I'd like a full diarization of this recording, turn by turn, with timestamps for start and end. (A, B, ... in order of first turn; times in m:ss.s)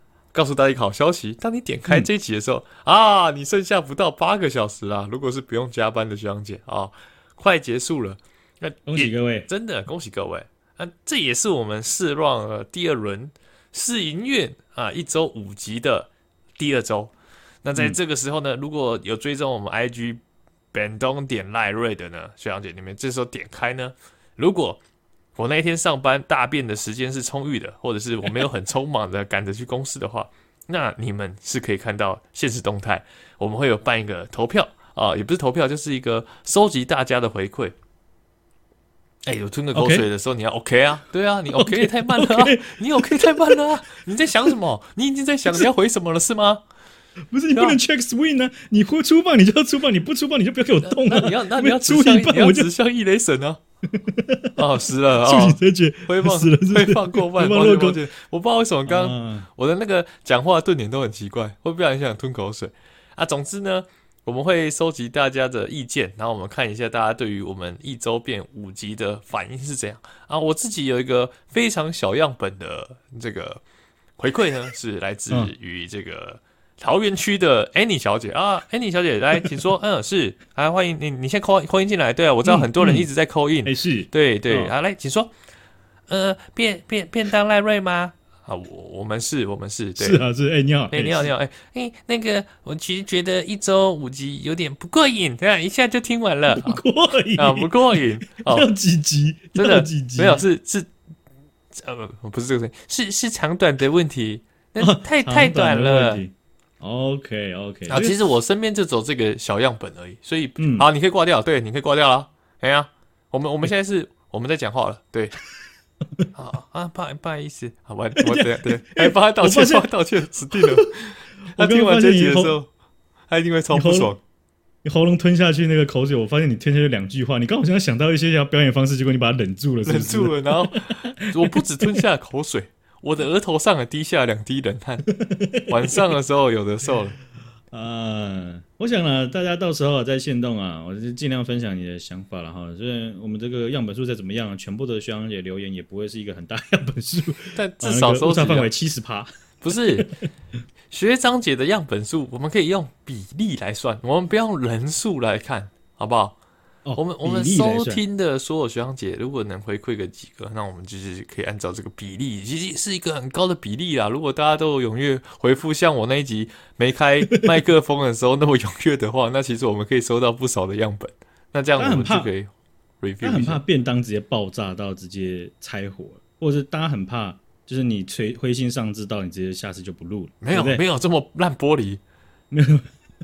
0:00.3-0:17.1 A
0:08.8-0:09.5 B
0:17.6-0:20.2 A
0:20.7-0:24.8 A
0:25.4-0:37.7 A
0:39.2-0:46.6 A
0:39.7-0:40.0 B
0:41.5-0:43.6 B
0:47.3-0:52.7 B
0:50.8-0:53.6 A
0:53.9-0:54.6 B
0:54.6-1:13.6 A
0:55.2-0:58.0 B
0:58.8-0:59.5 B
1:14.2-1:25.3 A
1:22.4-1:23.1 B
1:23.6-1:24.7 B
1:26.1-1:30.2 A
1:30.0-1:31.3 B
1:30.9-1:36.8 A
1:36.5-1:40.4 B
1:37.4-1:38.7 A
1:39.6-1:40.9 A
1:41.7-1:46.2 A
1:44.8-1:48.2 B
1:47.9-1:55.3 A
1:50.6-1:50.9 B
1:56.3-2:02.7 A
1:58.2-1:59.9 B
2:00.5-2:00.9 B
2:01.4-2:02.6 B
2:03.3-2:04.2 A
2:03.7-2:04.1 B
2:04.8-2:12.0 B
2:09.8-2:15.1 A
2:15.2-2:16.0 B
2:15.7-2:17.2 A
2:17.7-2:29.3 B
2:27.6-2:28.7 A
2:29.6-2:30.1 A
2:30.9-2:36.4 A
2:36.8-2:38.0 B
2:37.0-2:52.5 A
2:51.8-2:52.3 B
2:53.0-2:53.6 A
2:53.2-3:00.8 B
3:00.4-3:02.0 A
3:02.5-3:02.8 B